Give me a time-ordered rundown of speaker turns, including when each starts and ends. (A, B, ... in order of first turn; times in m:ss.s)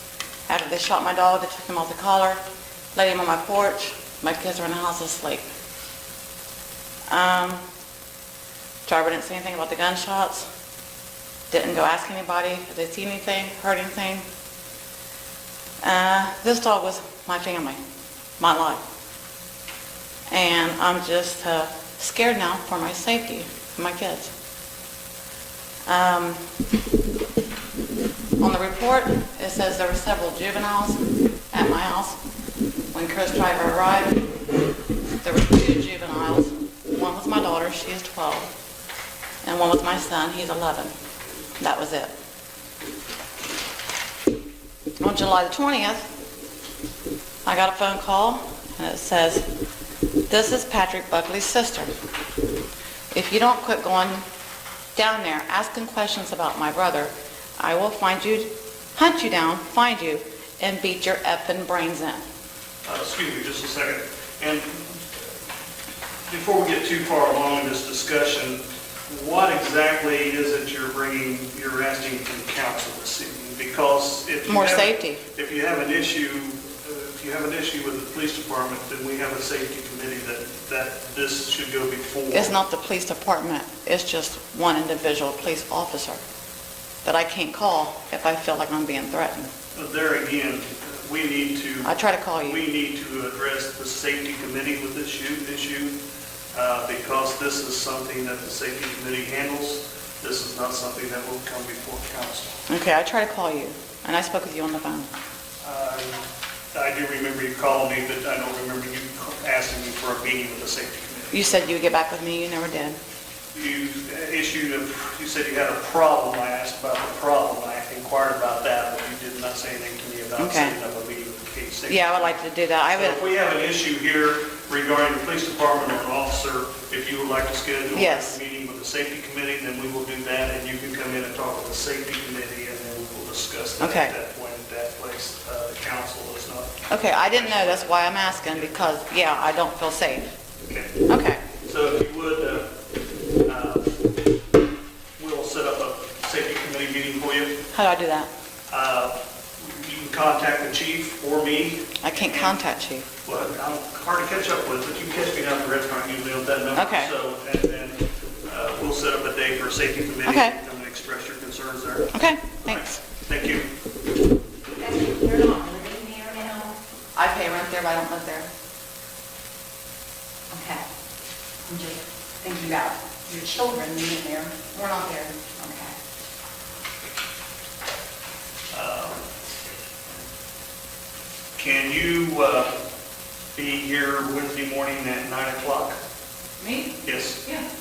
0:00.5-0:02.4 A
0:02.9-0:05.4 A
0:07.1-0:07.6 A
0:08.9-0:10.5 A
0:11.5-0:14.2 A
0:15.8-0:17.8 A
0:18.4-0:18.8 A
0:20.3-0:24.3 A
0:25.9-0:26.4 A
0:28.4-0:32.2 A
0:32.9-0:34.3 A
0:35.2-0:38.5 A
0:39.4-0:40.9 A
0:41.6-0:42.1 A
0:45.0-0:46.1 A
0:47.4-0:49.5 A
0:50.3-0:51.9 A
0:53.1-0:54.2 A
0:55.0-1:02.2 A
1:02.8-1:05.2 B
1:06.3-1:22.6 B
1:14.5-1:15.2 A
1:22.3-1:26.2 A
1:27.0-1:29.5 A
1:29.7-1:36.0 B
1:31.8-1:32.6 A
1:36.5-1:42.6 B
1:42.7-1:45.1 A
1:45.6-1:51.5 B
1:51.3-1:53.0 A
1:53.5-2:02.3 B
2:00.4-2:00.8 A
2:01.9-2:03.2 A
2:02.9-2:19.0 B
2:07.9-2:08.4 A
2:13.8-2:14.1 A
2:16.9-2:20.3 A
2:20.7-2:21.1 B
2:21.1-2:21.4 A
2:21.6-2:22.7 B
2:23.4-2:24.0 B
2:25.2-2:27.6 B
2:27.7-2:28.3 A
2:28.7-2:32.6 B
2:32.0-2:33.1 A
2:33.2-2:43.7 B
2:36.7-2:37.1 A
2:40.3-2:40.6 A
2:42.1-2:43.0 A
2:44.8-2:46.7 C
2:47.2-2:48.5 A
2:50.5-2:50.8 A
2:52.4-2:54.5 C
2:54.6-2:55.6 A
2:58.7-2:59.3 B
3:01.6-3:02.8 B
3:03.6-3:06.0 B
3:06.6-3:07.7 A
3:07.0-3:07.4 B